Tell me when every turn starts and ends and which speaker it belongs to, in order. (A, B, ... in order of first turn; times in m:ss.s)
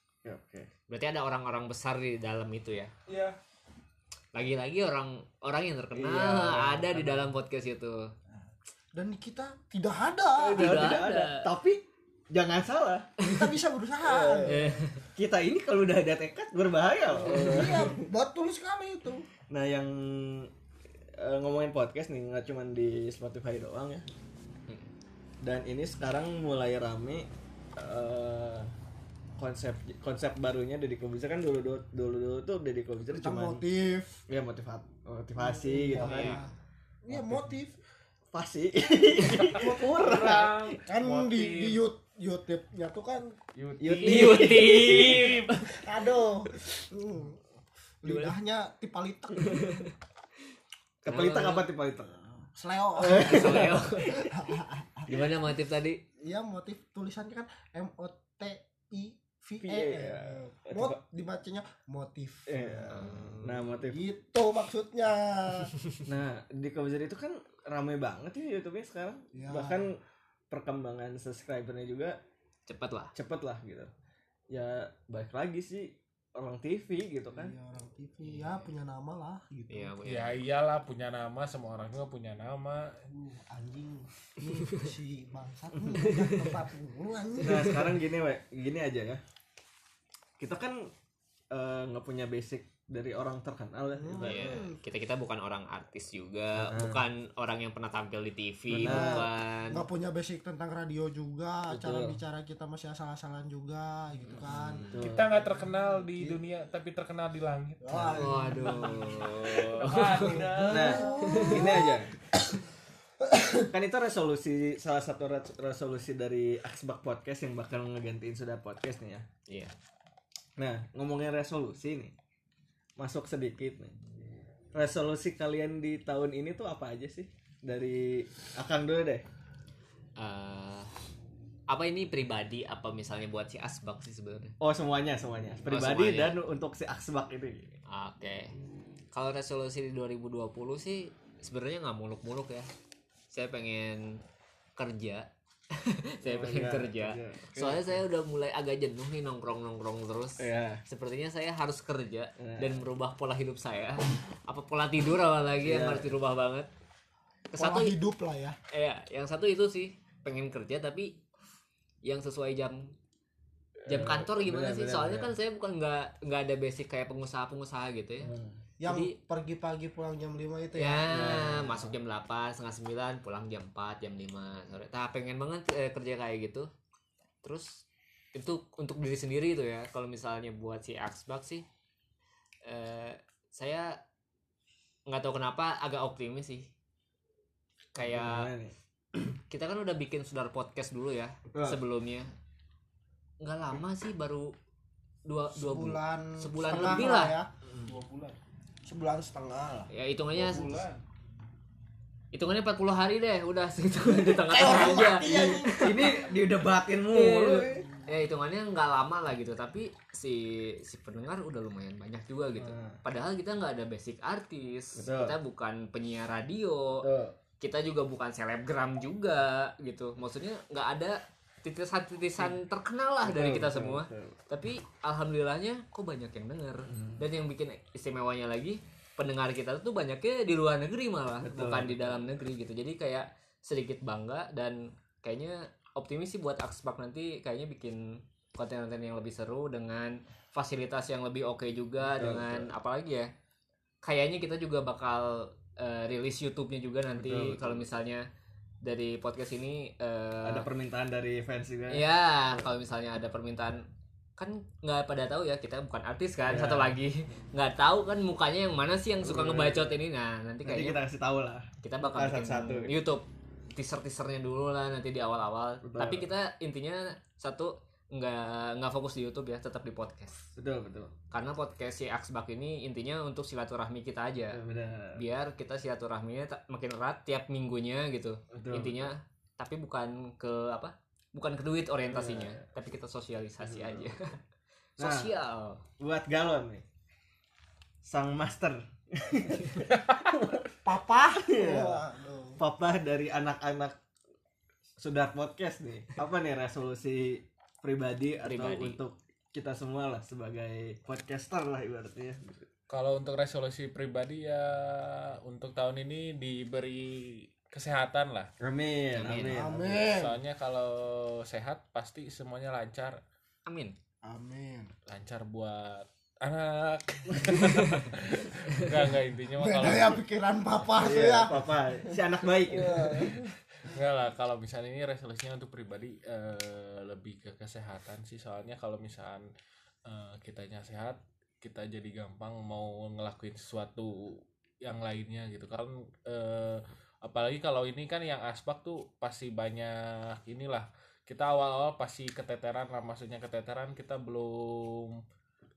0:00.2-0:00.7 A
0:00.9-0:02.9 B
0:03.1-0:03.4 C
0:04.3-0:08.1 B
0:05.9-0:07.3 A
0:09.0-0:10.8 D
0:10.4-0:13.1 A
0:10.5-0:11.5 B
0:13.2-0:13.5 B
0:13.2-0:14.8 D
0:14.0-0:18.0 A
0:14.5-0:15.0 B
0:17.1-0:19.3 D
0:17.4-0:17.7 B
0:19.5-0:20.5 A
0:21.2-0:24.1 A
0:25.4-0:28.7 A
0:29.4-0:33.6 A
0:33.1-0:34.2 D
0:34.3-0:36.4 A
0:35.4-0:36.5 D
0:36.0-0:36.4 B
0:37.0-0:37.8 D
0:37.1-0:37.5 A
0:38.3-0:40.8 A
0:39.4-0:41.8 C
0:40.8-0:43.4 D
0:43.6-0:45.7 C
0:43.8-0:45.4 A
0:43.9-0:45.6 B
0:45.6-0:47.4 D
0:48.0-0:49.8 D
0:48.1-0:48.3 B
0:49.5-0:49.9 B
0:51.0-0:51.7 B
0:51.0-0:52.3 A
0:52.5-0:55.1 D
0:53.0-0:54.1 A
0:53.1-0:54.3 B
0:55.1-0:56.0 B
0:56.2-1:05.7 D
0:59.6-1:01.0 A
1:02.5-1:04.0 A
1:02.9-1:03.4 B
1:06.0-1:10.0 A
1:09.3-1:09.9 D
1:10.5-1:12.2 A
1:12.7-1:13.1 B
1:13.1-1:13.9 A
1:14.5-1:17.5 A
1:17.3-1:19.9 D
1:18.3-1:18.6 B
1:19.7-1:20.4 B
1:20.0-1:23.0 C
1:23.1-1:27.8 D
1:26.2-1:26.5 B
1:27.4-1:29.2 A
1:30.4-1:30.9 A
1:31.5-1:34.7 A
1:34.0-1:34.8 D
1:34.2-1:39.8 B
1:36.6-1:37.0 A
1:38.7-1:39.3 A
1:38.8-1:44.9 D
1:41.7-1:42.2 A
1:44.6-1:45.3 A
1:45.0-1:51.5 C
1:47.8-1:49.1 D
1:47.9-1:48.2 A
1:48.1-1:51.7 B
1:50.2-1:52.0 D
1:50.7-1:52.2 A
1:53.2-1:53.7 D
1:53.7-1:59.3 A
2:00.6-2:02.1 A
2:03.0-2:03.9 A
2:04.7-2:09.2 A
2:10.2-2:10.9 B
2:11.7-2:14.5 B
2:14.6-2:17.8 A
2:15.7-2:16.4 B
2:17.9-2:18.6 B
2:19.1-2:22.7 B
2:23.3-2:24.2 B
2:24.8-2:36.7 B
2:26.2-2:28.0 A
2:30.4-2:30.8 A
2:32.4-2:32.8 A
2:35.6-2:36.1 A
2:37.5-2:38.0 B
2:37.6-2:38.6 D
2:38.7-2:41.2 B
2:42.0-2:42.9 B
2:43.8-2:45.3 A
2:43.9-2:48.3 B
2:48.2-2:48.6 A
2:48.8-2:51.2 D
2:48.8-2:49.1 B
2:50.8-2:56.7 B
2:51.1-2:52.0 A
2:57.4-3:01.7 B
3:02.6-3:04.0 B
3:05.1-3:06.7 B
3:07.9-3:08.5 B
3:08.0-3:09.3 A
3:09.5-3:12.3 B
3:11.5-3:11.8 A
3:13.4-3:14.5 B
3:15.2-3:17.4 B
3:15.5-3:17.5 D
3:17.8-3:18.4 C
3:18.9-3:19.9 D
3:19.9-3:20.8 B
3:20.3-3:21.0 C
3:22.3-3:26.2 B
3:24.1-3:27.9 A
3:24.5-3:26.2 D
3:27.1-3:37.1 B
3:32.6-3:33.0 A
3:35.0-3:35.4 A
3:37.0-3:37.4 A
3:37.6-4:03.3 B
3:43.2-3:44.4 A
3:46.9-3:47.2 A
3:51.4-3:52.3 A
4:02.0-4:02.7 A
4:04.0-4:08.3 B
4:07.2-4:07.9 A
4:08.8-4:10.7 B
4:10.4-4:12.7 A
4:11.9-4:13.8 B
4:14.4-4:21.0 B
4:16.4-4:17.0 A
4:19.2-4:20.0 A
4:20.6-4:23.0 A
4:21.8-4:30.5 B
4:25.8-4:26.3 A
4:30.6-4:31.1 A
4:31.3-4:34.6 B
4:34.5-4:35.2 A
4:35.2-4:44.4 B
4:38.5-4:39.1 A
4:42.1-4:42.6 A
4:43.6-4:44.1 A
4:45.0-4:45.8 B
4:45.0-4:45.3 A
4:46.0-4:46.8 A
4:48.0-4:50.8 A
4:49.9-4:50.2 C
4:50.8-4:52.6 D
4:51.4-4:52.0 A
4:52.6-4:54.0 A
4:55.0-5:02.7 A
4:58.4-4:59.0 B
5:02.9-5:08.5 C
5:08.6-5:10.1 A
5:09.1-5:09.6 B
5:09.5-5:10.4 D
5:10.0-5:13.2 C
5:13.7-5:14.0 B
5:14.2-5:14.9 D
5:15.1-5:20.2 C
5:17.4-5:17.7 A
5:19.6-5:22.2 D
5:21.0-5:23.3 A
5:22.7-5:23.5 D
5:23.9-5:29.5 C
5:30.1-5:45.2 C